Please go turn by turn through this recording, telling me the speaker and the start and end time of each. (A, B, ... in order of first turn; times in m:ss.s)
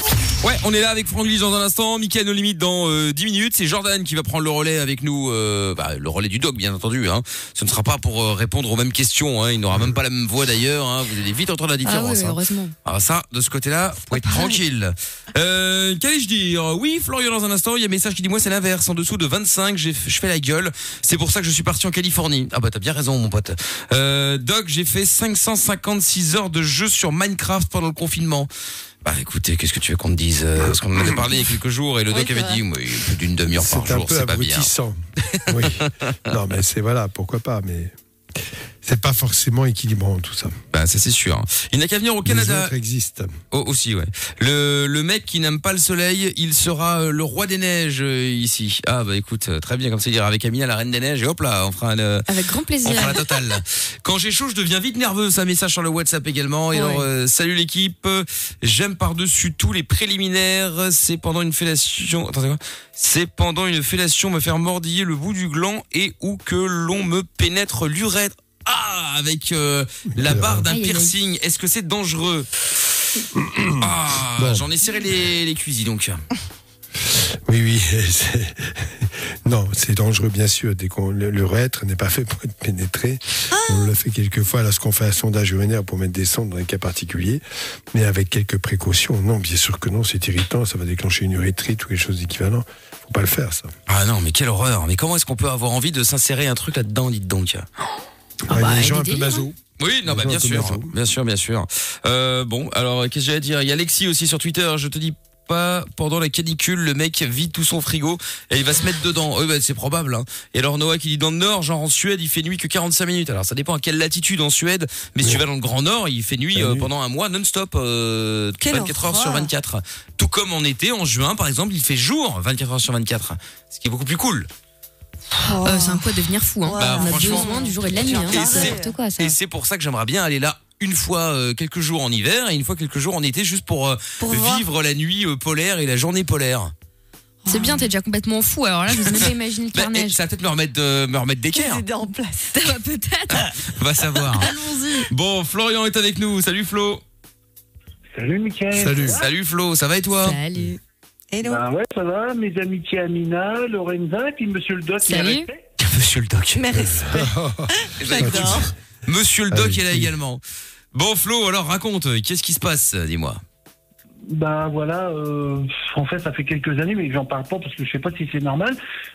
0:00.4-0:28.5 A
0:11.8-0:12.7 B
0:14.0-0:14.6 B
0:29.0-0:34.7 A
0:32.1-0:32.6 C
0:33.5-0:37.9 D
0:35.3-0:35.9 A
0:38.8-0:40.5 D
0:40.7-0:42.7 A
0:42.2-0:43.3 D
0:43.5-0:52.3 A
0:52.3-0:53.2 B
0:52.8-1:12.7 A
0:56.7-0:57.1 B
1:10.1-1:10.7 D
1:10.7-1:11.2 B
1:13.3-1:14.7 D
1:13.8-1:16.2 A
1:17.0-1:33.7 D
1:23.5-1:23.9 C
1:33.9-1:37.7 A
1:38.5-1:40.9 D
1:38.5-1:39.5 B
1:39.8-2:04.5 A
1:56.5-1:56.9 D
1:58.6-1:59.5 C
2:05.3-2:09.0 C
2:05.6-2:09.4 B
2:06.8-2:16.7 A
2:14.2-2:14.7 C
2:17.5-2:20.2 B
2:17.5-2:17.9 C
2:19.0-2:21.8 A
2:21.5-2:22.8 C
2:22.5-2:25.0 B
2:23.3-2:24.5 A
2:24.4-2:25.0 C
2:25.1-2:27.0 A
2:28.2-2:29.3 E
2:28.7-2:29.2 D
2:29.1-2:30.4 A
2:30.2-2:30.8 B
2:31.3-2:31.6 C
2:31.4-2:35.6 E
2:35.0-2:35.5 B
2:35.8-2:36.6 A
2:36.5-2:38.7 C
2:36.7-2:38.7 D
2:38.0-2:40.4 A
2:39.5-2:40.1 D
2:40.9-2:43.4 A
2:44.3-2:48.8 E